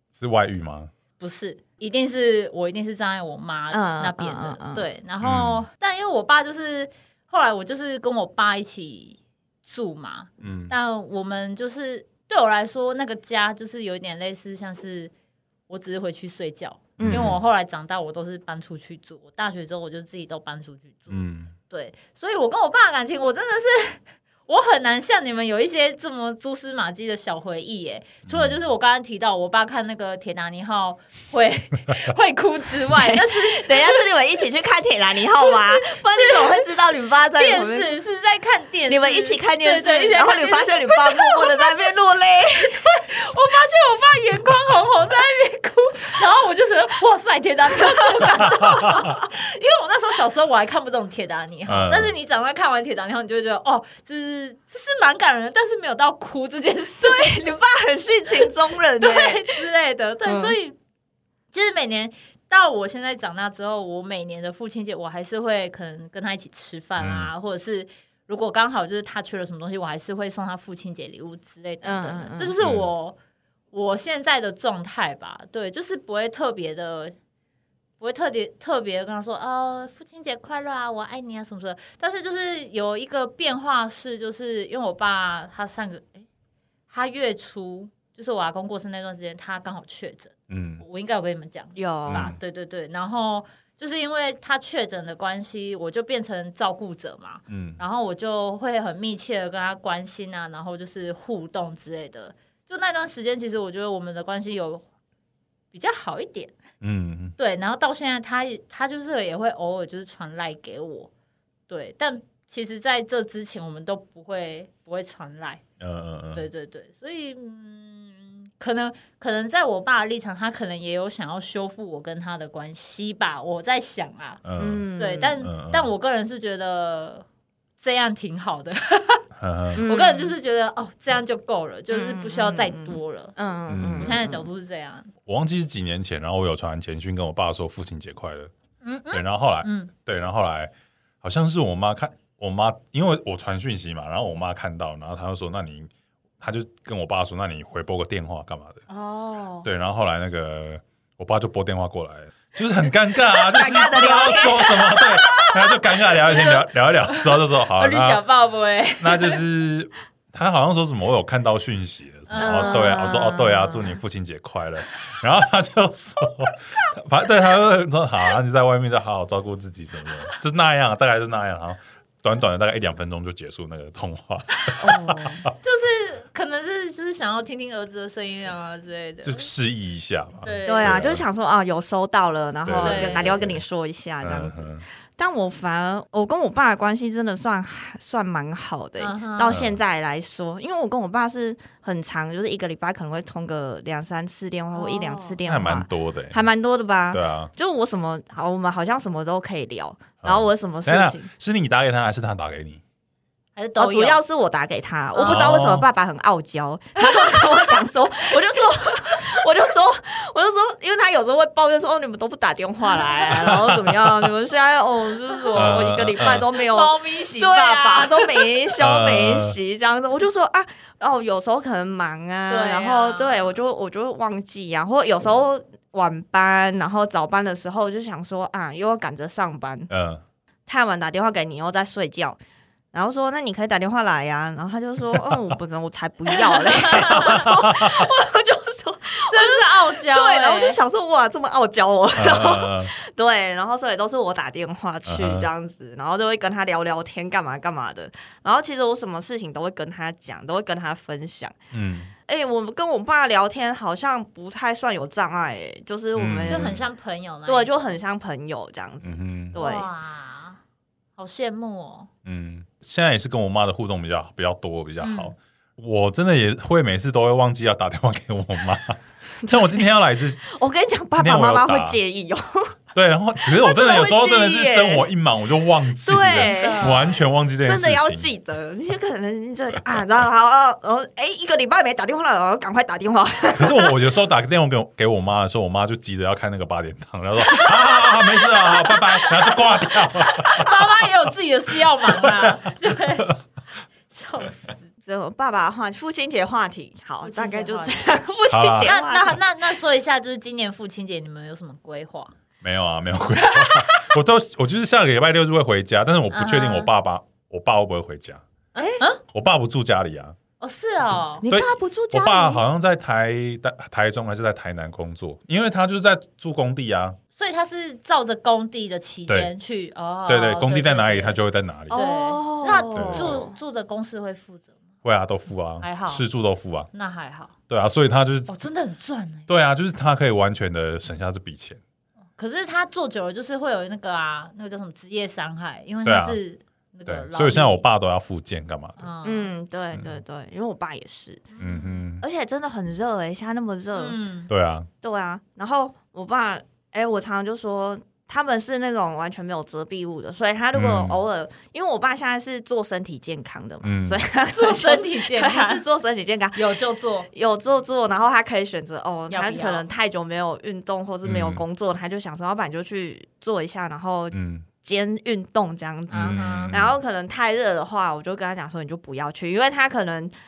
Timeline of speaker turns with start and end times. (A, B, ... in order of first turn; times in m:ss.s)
0:00.2-0:00.9 A
0:01.2-0:15.1 B
0:03.7-0:04.9 C
0:05.2-0:05.6 A
0:10.4-0:10.7 A
0:15.7-0:34.1 B
0:17.0-0:17.4 C
0:17.0-0:17.4 A
0:21.1-0:21.5 A
0:28.3-0:28.6 A
0:32.9-0:37.9 C
0:35.4-0:36.6 B
0:37.4-0:41.9 B
0:38.9-0:42.8 C
0:42.5-0:57.4 B
0:48.0-0:48.3 C
0:48.4-0:49.2 A
0:51.7-0:52.1 A
0:57.0-0:59.6 C
0:59.0-1:00.8 B
1:00.3-1:00.6 C
1:01.5-1:13.2 B
1:07.0-1:07.3 A
1:11.8-1:12.6 C
1:12.6-1:12.9 A
1:13.7-1:17.1 B
1:18.0-1:26.3 B
1:26.9-1:44.8 B
1:30.5-1:30.8 A
1:31.8-1:32.3 C
1:32.1-1:32.4 A
1:37.5-1:37.8 A
1:45.7-1:46.6 B
1:46.8-1:47.4 A
1:47.4-1:51.1 B
1:51.7-1:55.6 B
1:55.8-1:56.4 A
1:56.4-2:04.4 B
2:04.4-2:04.9 A
2:04.6-2:05.4 C
2:05.0-2:07.3 B
2:05.4-2:05.9 A
2:07.8-2:09.2 B
2:09.4-2:09.8 A
2:09.8-2:10.4 C
2:09.8-2:13.4 B
2:11.9-2:14.5 C
2:13.7-2:14.2 A
2:13.9-2:15.1 B
2:15.3-2:18.5 A
2:18.8-2:19.9 B
2:19.1-2:28.8 A
2:28.9-2:29.6 B
2:29.6-2:38.2 A
2:33.3-2:36.5 C
2:37.1-2:39.4 B
2:39.0-2:55.5 A
2:42.3-2:43.2 B
2:42.4-2:44.0 C
2:54.8-2:55.5 C
2:55.6-2:59.5 B
2:59.2-3:01.2 A
3:00.4-3:01.1 B
3:00.6-3:04.6 C
3:02.6-3:03.6 A
3:02.8-3:03.3 B
3:04.2-3:04.8 A
3:05.2-3:21.3 C
3:09.0-3:09.6 B
3:09.5-3:09.8 A
3:14.7-3:15.4 B
3:15.4-3:16.4 A
3:17.1-3:17.5 A
3:20.2-3:22.8 A
3:23.6-3:24.2 B
3:23.8-3:49.9 C
3:25.1-3:25.6 B
3:25.2-3:25.9 A
3:27.0-3:28.6 B
3:33.0-3:33.4 B
3:33.4-3:34.3 A
3:35.4-3:35.8 B
3:35.6-3:36.4 A
3:36.6-3:38.7 B
3:38.8-3:39.6 A
3:42.5-3:43.6 B
3:49.9-3:50.2 A
3:50.7-3:52.4 C
3:52.9-4:11.6 C
3:55.1-3:55.5 A
3:56.4-3:57.4 B
3:57.0-3:58.1 A
3:59.3-4:00.8 B
4:02.2-4:02.9 A
4:05.1-4:05.5 A
4:11.7-4:12.1 A
4:12.3-4:16.8 C
4:16.2-4:16.8 A
4:16.4-4:17.8 B
4:17.4-4:19.9 C
4:19.0-4:19.6 A
4:19.6-4:20.6 B
4:21.2-4:22.1 B
4:22.2-4:30.5 A
4:25.0-4:25.3 B
4:30.5-4:32.7 C
4:31.2-4:32.0 A
4:32.9-4:38.3 A
4:33.4-4:35.1 C
4:36.0-4:43.9 C
4:36.4-4:37.2 B
4:43.5-4:51.1 A
4:47.6-4:48.1 B
4:48.6-4:53.3 B
4:52.2-4:53.4 A
4:54.1-4:54.8 B
4:55.0-4:59.4 C
4:57.2-4:58.1 B
4:58.5-4:59.0 A
4:58.8-5:02.3 B
5:02.6-5:08.4 A
5:03.4-5:04.1 B
5:06.3-5:06.9 B
5:08.7-5:09.2 B
5:08.8-5:09.0 C
5:09.3-5:10.4 A
5:10.6-5:11.4 B
5:11.4-5:12.6 C
5:11.4-5:17.2 A
5:17.4-5:24.7 B
5:20.3-5:22.0 A
5:21.9-5:23.5 C
5:22.9-5:23.4 A
5:25.0-5:26.9 A
5:25.8-5:26.2 B
5:26.9-5:27.5 B
5:27.7-5:28.5 A
5:28.5-5:29.5 B
5:29.5-5:31.8 A
5:32.4-5:37.8 B
5:36.0-5:36.4 A
5:37.1-5:39.1 A
5:39.0-5:39.5 B
5:39.2-5:41.5 C
5:41.6-5:42.0 B
5:41.6-5:42.2 A
5:42.2-5:44.2 C
5:44.0-5:44.5 B
5:44.5-5:44.9 A
5:45.0-5:56.7 C
5:50.7-5:51.2 A
5:53.8-5:54.2 A
5:54.5-5:55.8 B
5:56.6-5:57.3 B
5:57.3-6:10.3 C
5:59.3-5:59.8 B
6:01.2-6:01.6 A
6:04.3-6:04.7 A
6:06.1-6:07.0 A
6:06.1-6:06.8 B